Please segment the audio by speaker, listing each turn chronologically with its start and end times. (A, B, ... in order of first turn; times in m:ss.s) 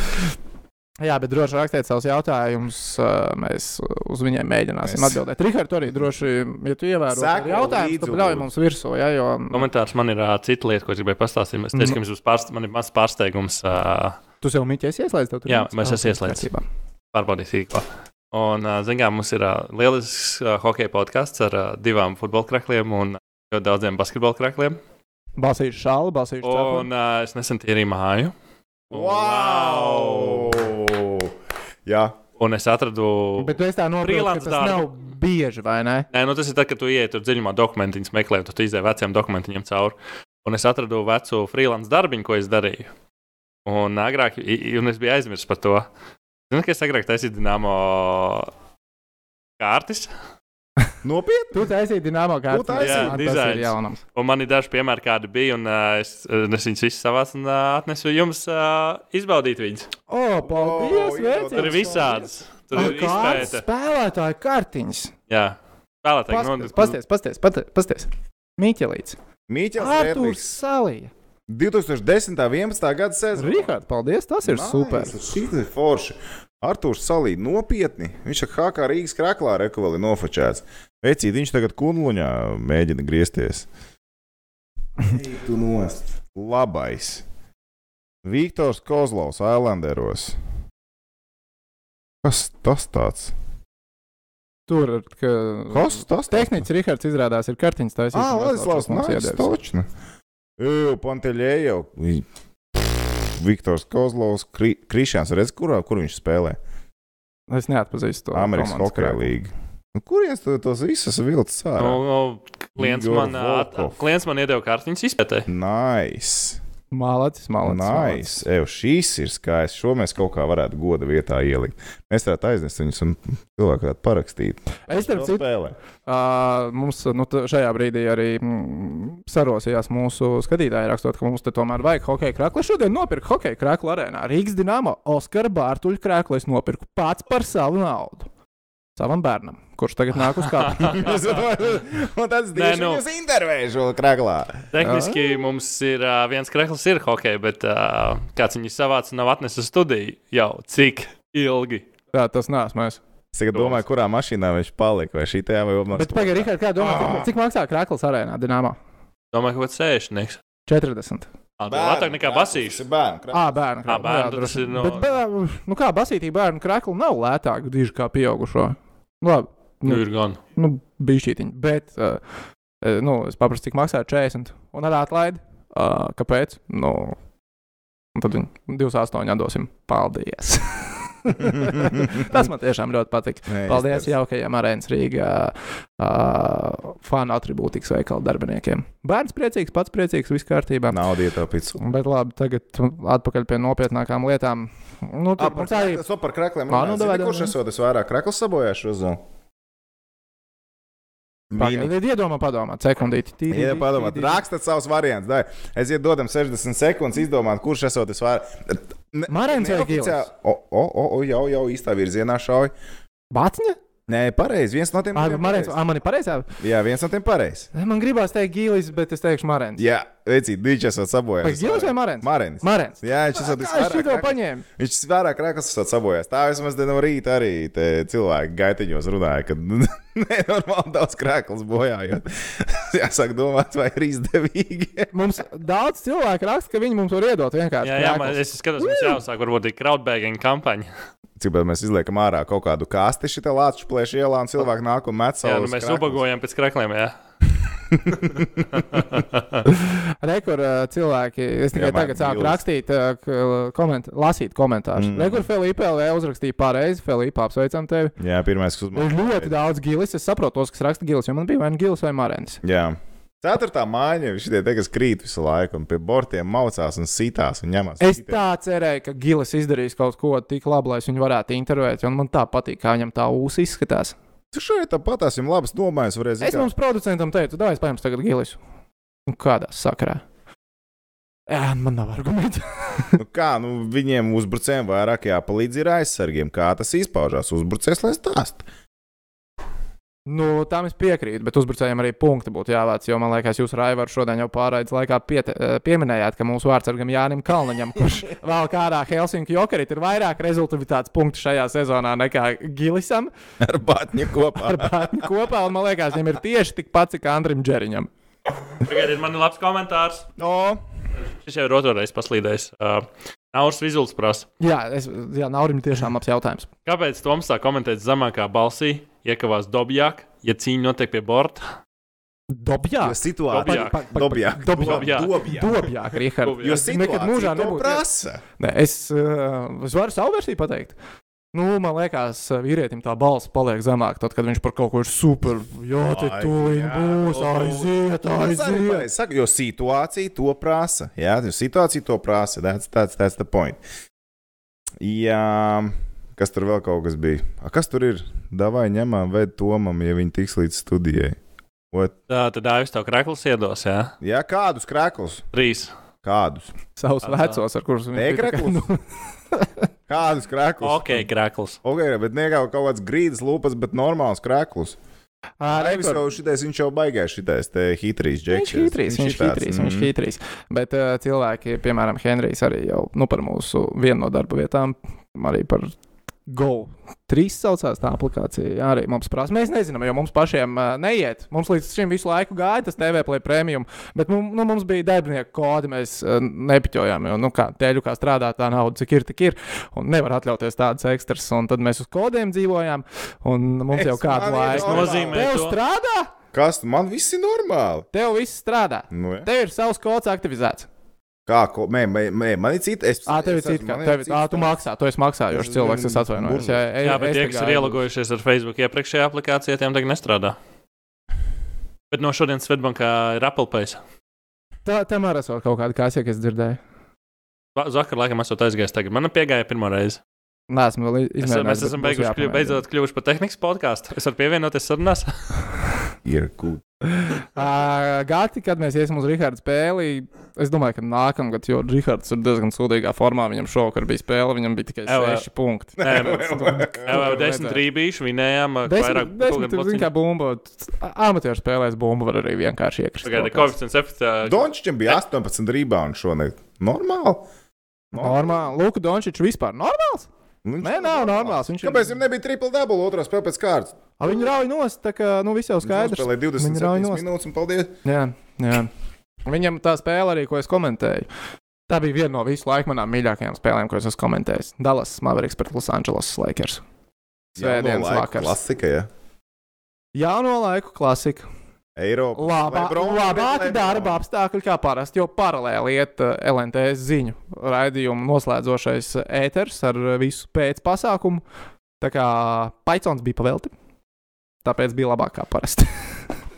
0:01.0-0:09.7 A
0:04.8-0:05.2 B
0:07.1-0:08.5 B
0:09.5-0:14.2 C
0:11.7-0:12.0 A
0:14.4-0:16.6 A
0:15.5-0:16.5 C
0:17.1-0:24.8 C
0:25.4-0:26.9 A
0:26.4-0:28.3 C
0:28.9-0:30.6 C
0:28.9-0:31.3 B
0:31.9-0:32.2 B
0:32.4-0:34.9 C
0:33.4-0:36.1 A
0:36.1-0:42.9 C
0:43.7-0:45.9 C
0:46.5-0:48.5 C
0:49.6-0:50.1 C
0:51.0-0:51.7 B
0:51.5-0:54.0 A
0:52.5-0:53.2 B
0:52.8-0:59.9 C
1:00.1-1:02.1 A
1:00.4-1:02.3 B
1:01.5-1:03.6 C
1:02.7-1:05.1 A
1:05.3-1:07.0 C
1:06.3-1:09.2 A
1:09.5-1:10.5 B
1:09.8-1:11.1 A
1:11.5-1:13.8 B
1:13.4-1:15.2 A
1:14.4-1:23.7 B
1:25.0-1:27.2 B
1:28.2-1:30.4 B
1:32.2-1:33.3 B
1:34.7-1:39.5 A
1:35.7-1:36.7 B
1:38.1-1:39.9 B
1:40.6-1:42.3 B
1:42.8-1:46.6 B
1:47.5-1:49.3 A
1:48.3-1:52.0 B
1:51.8-1:55.5 C
1:52.8-1:54.0 B
1:55.5-1:56.6 B
1:56.9-1:58.4 A
1:57.6-2:05.8 B
2:04.9-2:05.4 A
2:06.1-2:18.3 A
2:19.0-2:21.3 A
2:20.7-2:21.0 C
2:20.8-2:24.7 B
2:22.6-2:23.0 C
2:24.7-2:31.9 C
2:24.8-2:25.4 A
2:32.1-2:33.0 A
2:33.3-2:37.3 B
2:35.9-2:38.8 A
2:39.3-2:40.4 C
2:40.7-2:41.3 A
2:41.6-2:42.8 C
2:41.7-2:43.6 B
2:43.3-2:50.0 A
2:43.9-2:45.1 C
2:49.9-2:50.4 C
2:50.6-2:52.2 A
2:52.8-2:57.2 A
2:58.2-3:11.0 A
3:01.4-3:02.3 B
3:03.5-3:04.1 B
3:10.9-3:11.8 B
3:11.8-3:16.0 A
3:15.4-3:19.2 B
3:16.7-3:17.5 A
3:21.5-3:21.9 B
3:21.6-3:24.4 A
3:23.5-3:32.7 B
3:29.3-3:30.3 A
3:33.3-3:33.8 A
3:34.1-3:35.8 B
3:35.1-3:36.5 A
3:36.6-3:37.7 B
3:37.7-3:39.8 A
3:39.8-3:55.1 B
3:41.4-3:44.6 A
3:55.1-3:59.2 A
3:57.8-4:00.9 C
4:01.4-4:06.2 B
4:05.4-4:07.1 C
4:07.9-4:08.6 B
4:08.7-4:09.6 C
4:09.7-4:18.2 A
4:11.7-4:12.6 B
4:15.0-4:15.5 B
4:18.2-4:19.5 B
4:18.9-4:22.6 A
4:22.6-4:28.4 B
4:28.0-4:34.2 A
4:34.5-4:36.7 B
4:36.4-4:38.6 A
4:39.3-4:40.2 A
4:41.5-4:43.2 A
4:43.2-4:48.6 B
4:50.3-5:03.3 A
5:03.6-5:05.3 B
5:04.6-5:08.1 A
5:08.8-5:10.3 C
5:10.4-5:10.8 B
5:11.4-5:14.5 C
5:14.6-5:16.7 A
5:16.9-5:21.6 C
5:22.5-5:28.0 A
5:23.0-5:25.9 B
5:23.5-5:24.1 C
5:24.6-5:25.4 C
5:26.4-5:26.8 C
5:26.6-5:28.4 B
5:28.6-5:31.0 A
5:31.5-5:39.1 A
5:36.0-5:43.8 B
5:45.0-5:51.4 B
5:52.3-5:54.1 C
5:54.2-5:55.4 B
5:55.5-5:55.9 C
5:56.2-5:56.7 B
5:57.0-5:59.0 A
5:57.2-5:57.6 C
5:58.1-5:58.9 B
5:59.5-5:59.8 A
6:00.1-6:01.3 B
6:00.8-6:01.8 C
6:01.8-6:05.0 B
6:05.6-6:06.3 A
6:05.7-6:10.1 B
6:08.5-6:15.9 A
6:16.5-6:36.3 A
6:33.9-6:35.5 B
6:34.7-6:35.8 C
6:36.5-6:38.1 B
6:38.1-6:40.9 A
6:39.1-6:39.5 B
6:41.5-6:44.8 B
6:43.3-6:48.0 A
6:45.5-6:46.8 B
6:47.0-6:50.6 C
6:52.1-6:54.0 C
6:54.8-6:56.8 A
6:57.8-7:00.2 C
7:00.7-7:02.8 A
7:01.4-7:05.3 C
7:06.2-7:06.8 B
7:07.2-7:17.8 A
7:15.1-7:15.4 C
7:16.0-7:17.4 B
7:16.0-7:20.1 C
7:18.9-7:23.7 A
7:23.2-7:25.2 C
7:24.4-7:27.5 B
7:28.1-7:28.6 B
7:28.2-7:30.3 A
7:30.6-7:34.4 B
7:30.8-7:32.2 A
7:34.2-7:37.2 A
7:35.8-7:37.9 B
7:38.0-7:38.9 A
7:39.5-7:41.3 A
7:41.9-7:46.8 A
7:47.6-7:49.1 B
7:47.6-7:48.6 A
7:50.1-7:51.5 A
7:52.0-7:54.2 B
7:52.4-8:01.4 A
8:02.0-8:03.7 A
8:04.6-8:06.2 A